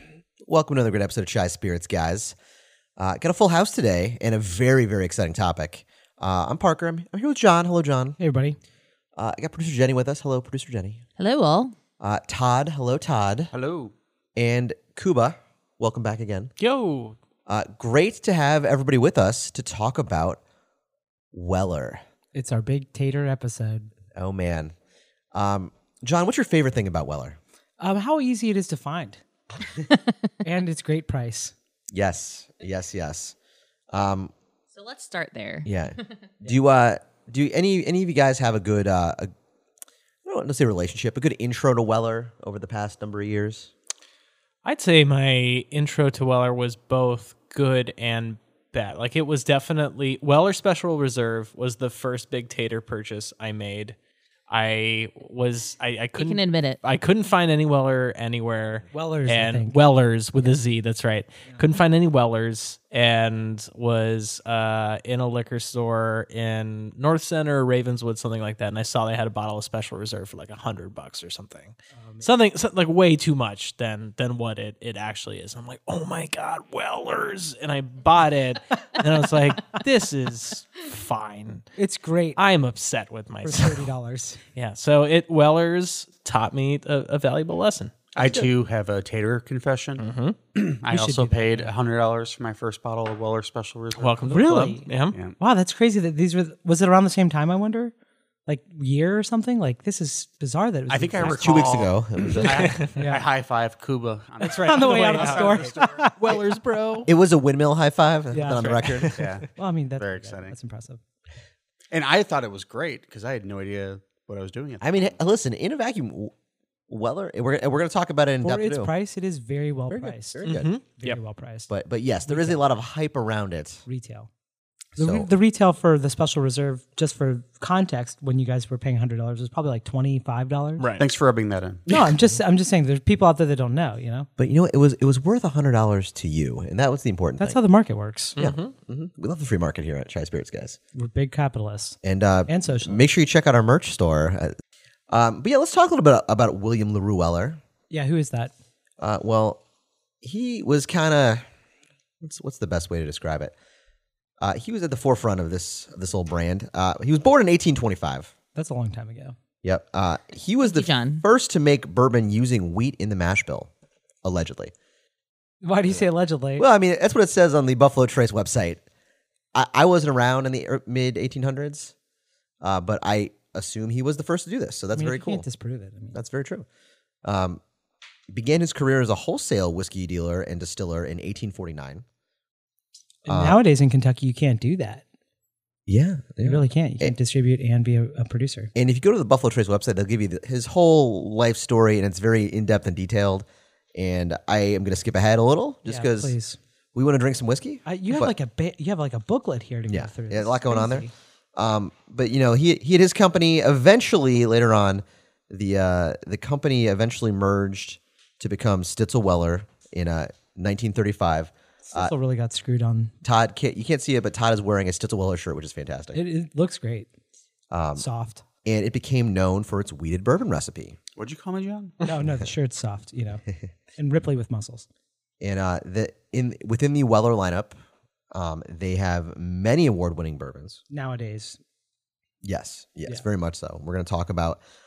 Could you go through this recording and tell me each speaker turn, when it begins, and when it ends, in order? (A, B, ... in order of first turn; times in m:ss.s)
0:00.4-0:02.4 A
0:03.0-0:08.2 A
0:08.2-0:08.6 B
0:09.2-0:11.0 A
0:11.2-0:11.8 C
0:12.0-0:13.5 A
0:13.5-0:13.9 D
0:14.4-0:16.5 A
0:16.6-0:17.2 E
0:17.5-0:20.4 A
0:21.3-0:22.0 A
0:22.3-0:23.9 B
0:24.1-0:24.7 A
0:25.3-0:27.4 A
0:27.8-0:29.2 B
0:30.4-0:31.5 B
0:31.9-0:33.4 A
0:33.9-0:34.3 A
0:34.7-0:36.1 C
0:35.7-0:39.3 A
0:40.2-0:43.7 A
0:44.6-0:54.0 E
0:54.5-1:21.7 E
0:56.2-0:56.8 C
0:58.9-0:59.8 B
1:12.0-1:12.3 B
1:21.8-1:22.4 B
1:22.4-1:23.9 E
1:23.4-1:24.4 B
1:24.6-1:27.9 E
1:28.1-1:34.4 D
1:30.0-1:30.4 E
1:30.9-1:31.7 B
1:34.0-1:35.2 E
1:34.3-1:37.9 B
1:38.5-1:41.7 B
1:40.9-1:46.4 D
1:41.2-1:42.8 A
1:42.4-1:43.0 E
1:43.0-1:43.2 B
1:44.4-1:46.4 B
1:44.4-1:47.1 E
1:47.0-1:49.3 A
1:48.3-1:48.9 B
1:48.4-1:49.4 E
1:49.1-1:50.5 D
1:49.6-1:51.0 B
1:51.9-1:55.2 D
1:54.8-1:56.3 A
1:56.9-1:58.9 A
1:58.4-2:00.4 B
1:59.9-2:00.7 A
2:00.4-2:01.2 E
2:01.0-2:01.7 B
2:01.7-2:03.8 A
2:02.3-2:02.6 B
2:03.9-2:04.3 B
2:05.0-2:05.3 A
2:05.0-2:10.9 B
2:10.8-2:11.1 E
2:11.0-2:12.1 D
2:11.9-2:14.3 B
2:14.4-2:17.6 A
2:17.4-2:18.4 B
2:18.4-2:18.7 E
2:18.4-2:20.8 A
2:20.9-2:23.0 B
2:22.0-2:24.5 A
2:25.1-2:27.6 A
2:27.9-2:28.5 B
2:29.0-2:29.6 A
2:30.2-2:31.4 A
2:32.2-2:33.5 A
2:34.4-2:38.3 A
2:38.6-2:39.4 B
2:39.6-2:43.7 A
2:40.6-2:41.2 C
2:44.2-2:44.7 A
2:45.6-2:46.6 B
2:46.6-2:48.8 A
2:49.5-2:51.9 A
2:52.6-2:55.4 A
2:54.9-2:56.2 B
2:56.1-2:56.7 A
2:57.2-2:57.6 A
2:58.3-3:02.0 A
3:03.2-3:05.0 B
3:03.3-3:03.6 A
3:05.9-3:07.1 A
3:06.4-3:08.7 B
3:08.8-3:16.4 A
3:15.9-3:16.6 B
3:16.9-3:18.3 A
3:17.8-3:21.1 B
3:19.9-3:32.1 A
3:31.8-3:33.1 B
3:33.2-3:36.2 A
3:36.1-3:37.1 B
3:37.7-3:38.1 A
3:38.0-3:38.4 B
3:38.6-3:41.0 A
3:41.2-3:42.0 D
3:42.0-3:43.4 B
3:44.0-3:44.9 B
3:45.4-3:47.8 A
3:48.3-3:50.8 A
3:50.9-3:51.6 B
3:52.4-3:54.6 A